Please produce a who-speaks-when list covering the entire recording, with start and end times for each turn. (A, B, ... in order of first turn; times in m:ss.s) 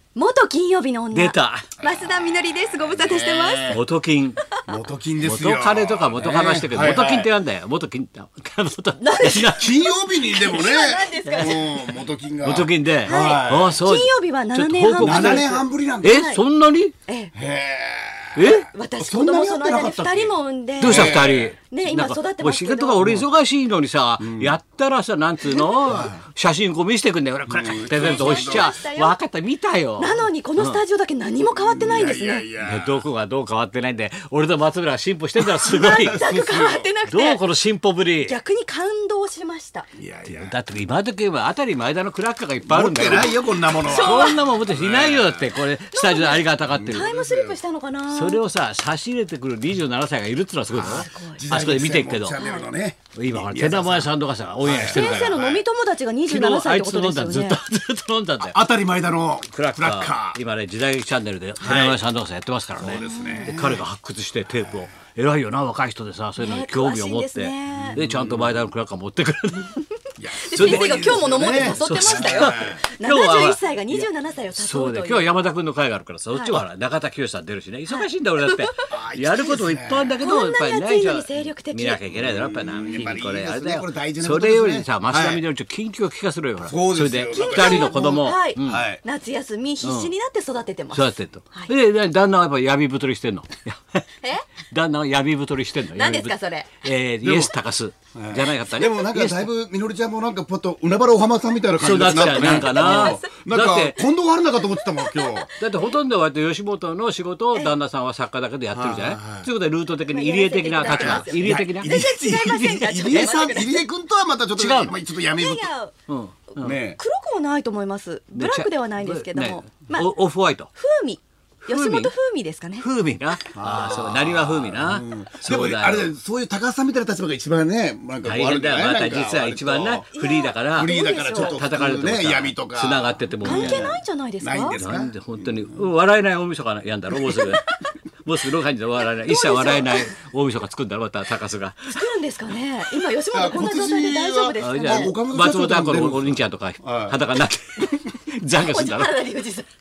0:00.1-0:03.8 A
0:01.1-0:01.7 B
0:01.8-0:03.8 C
0:03.7-0:04.4 B
0:04.7-0:07.3 C
0:05.2-0:09.8 B
0:09.0-0:11.8 A
0:09.2-0:13.8 C
0:11.3-0:11.5 B
0:12.4-0:15.5 B
0:13.0-0:16.4 A
0:15.0-0:16.2 C
0:16.0-0:16.9 B
0:17.1-0:17.3 A
0:17.3-0:21.5 C
0:18.3-0:18.7 B
0:18.4-0:23.1 A
0:20.8-0:30.8 B
0:23.0-0:23.2 C
0:24.2-0:24.6 C
0:25.8-0:26.2 C
0:27.5-0:28.7 C
0:27.9-0:29.2 A
0:30.0-0:32.4 A
0:31.5-0:33.0 C
0:32.6-0:36.2 B
0:35.6-0:37.4 A
0:35.7-0:36.9 C
0:37.0-0:38.4 B
0:38.2-0:39.9 A
0:39.9-0:40.6 C
0:40.3-0:47.1 B
0:42.7-0:45.5 C
0:43.7-0:44.4 A
0:45.9-0:48.4 A
0:46.6-0:47.6 C
0:48.1-0:52.4 B
0:50.7-0:55.6 C
0:50.8-0:51.4 A
0:52.4-0:52.7 A
0:53.1-0:55.4 B
0:54.8-0:57.6 A
0:56.3-0:58.6 B
0:58.4-1:00.4 C
0:59.5-1:09.8 B
1:01.6-1:02.0 C
1:02.8-1:03.8 C
1:03.0-1:03.6 A
1:06.4-1:08.0 A
1:07.7-1:08.6 C
1:10.2-1:12.8 C
1:10.4-1:15.3 A
1:10.5-1:28.8 B
1:16.3-1:16.6 A
1:17.9-1:18.8 A
1:18.9-1:20.2 C
1:20.2-1:22.0 A
1:22.1-1:25.4 C
1:26.6-1:29.0 C
1:27.3-1:31.7 A
1:29.8-1:30.1 B
1:30.9-1:34.0 B
1:34.7-1:39.5 B
1:35.9-1:36.7 A
1:37.2-1:37.5 C
1:38.1-1:45.5 C
1:41.8-1:44.0 B
1:42.2-1:43.3 A
1:45.0-1:45.8 A
1:45.6-1:51.9 B
1:48.7-1:49.5 C
1:50.1-1:53.8 A
1:50.8-1:55.7 C
1:54.5-1:55.0 B
1:55.2-1:55.9 A
1:56.1-1:56.8 B
1:56.5-2:00.1 A
1:56.6-1:57.0 C
1:58.3-2:00.7 B
2:00.8-2:02.8 A
2:01.7-2:02.1 B
2:02.8-2:06.1 B
2:03.5-2:10.0 C
2:08.2-2:13.9 B
2:10.1-2:11.6 A
2:10.7-2:15.8 C
2:13.4-2:14.8 A
2:14.7-2:22.1 B
2:17.2-2:17.7 A
2:19.2-2:20.1 A
2:21.9-2:25.1 A
2:23.3-2:27.2 C
2:24.6-2:29.2 B
2:28.6-2:29.7 A